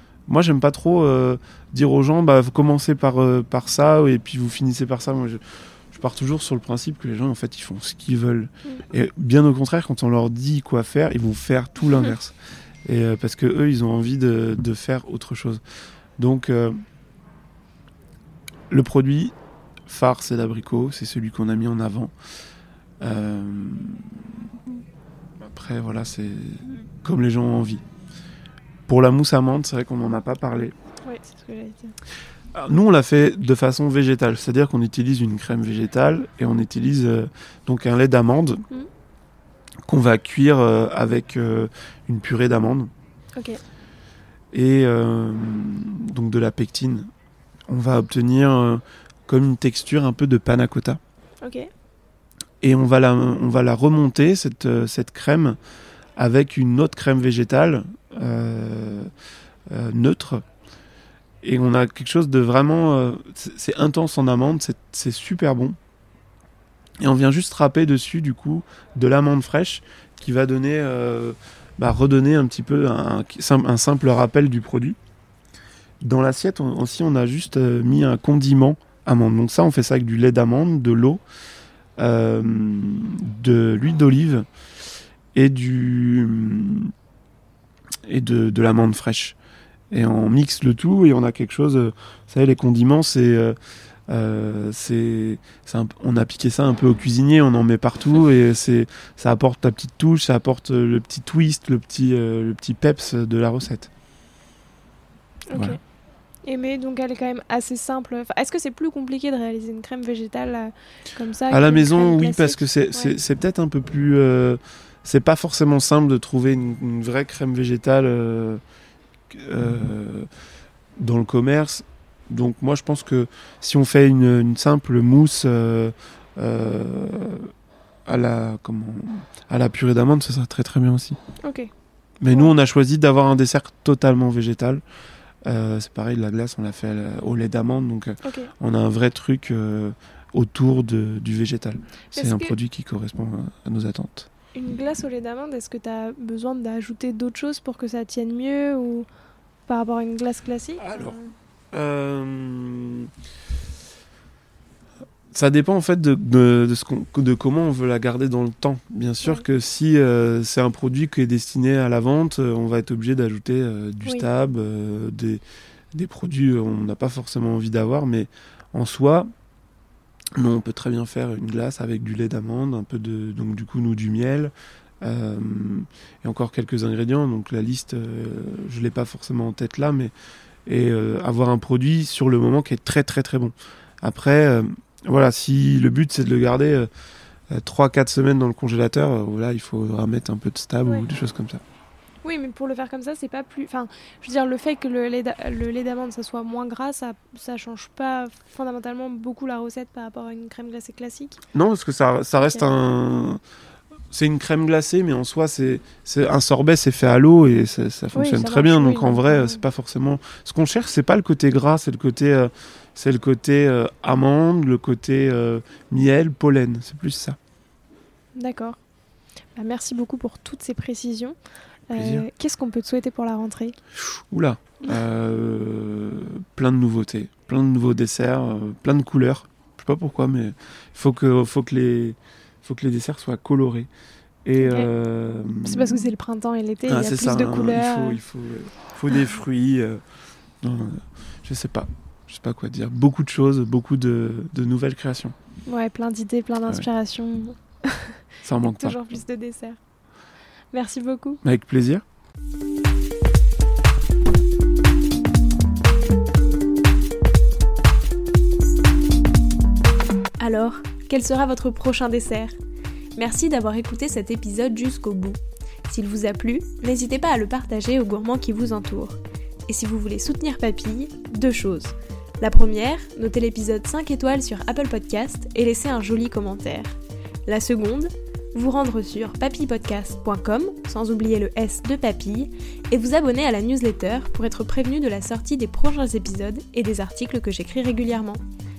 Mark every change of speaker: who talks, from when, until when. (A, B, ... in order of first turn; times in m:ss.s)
0:00.3-0:15.6 A
0:11.9-0:12.2 B
0:16.2-0:16.8 A
0:18.7-0:19.3 A
0:19.9-0:22.1 A
0:23.0-0:24.8 A
0:25.4-0:27.8 A
0:28.9-0:30.8 A
0:31.0-0:31.9 B
0:32.5-0:38.6 A
0:39.9-0:42.9 A
0:44.5-0:47.1 A
0:47.7-0:51.0 A
0:51.4-0:51.7 B
0:52.6-0:55.6 A
0:56.2-0:59.1 A
0:59.7-1:00.4 A
1:01.4-1:05.8 A
1:07.0-1:15.0 A
1:16.0-1:21.2 A
1:22.0-1:24.5 A
1:25.3-1:26.9 A
1:28.1-1:29.4 A
1:29.9-1:33.6 A
1:34.1-1:43.9 A
1:45.5-1:45.8 B
1:45.5-1:45.8 A
1:46.4-1:53.2 B
1:51.5-1:58.6 A
1:59.3-2:00.3 A
2:01.0-2:07.5 A
2:08.1-2:11.2 A
2:11.4-2:11.7 B
2:12.2-2:14.8 A
2:12.3-2:12.5 B
2:15.5-2:24.3 A
2:18.2-2:18.5 B
2:22.1-2:22.6 B
2:24.6-2:29.1 B
2:29.7-2:31.2 B
2:30.8-2:31.2 A
2:31.7-2:33.1 A
2:35.3-2:45.4 A
2:45.9-2:49.3 A
2:50.4-3:00.1 A
3:00.7-3:06.9 A
3:07.5-3:11.6 A
3:12.2-3:21.4 B
3:21.5-3:23.4 A
3:22.4-3:22.8 B
3:24.1-3:37.4 A
3:28.1-3:29.6 B
3:38.4-3:38.8 B
3:39.6-3:41.4 B
3:41.9-3:43.8 B
3:41.9-3:42.3 A
3:44.1-3:53.9 A
3:54.4-3:56.1 A
3:54.6-3:54.9 B
3:55.6-3:58.2 B
3:56.9-4:00.0 A
4:00.6-4:05.3 A
4:05.7-4:09.8 B
4:08.4-4:09.0 A
4:10.7-4:11.4 B
4:11.4-4:12.0 A
4:20.4-4:22.6 B
4:23.2-4:48.4 B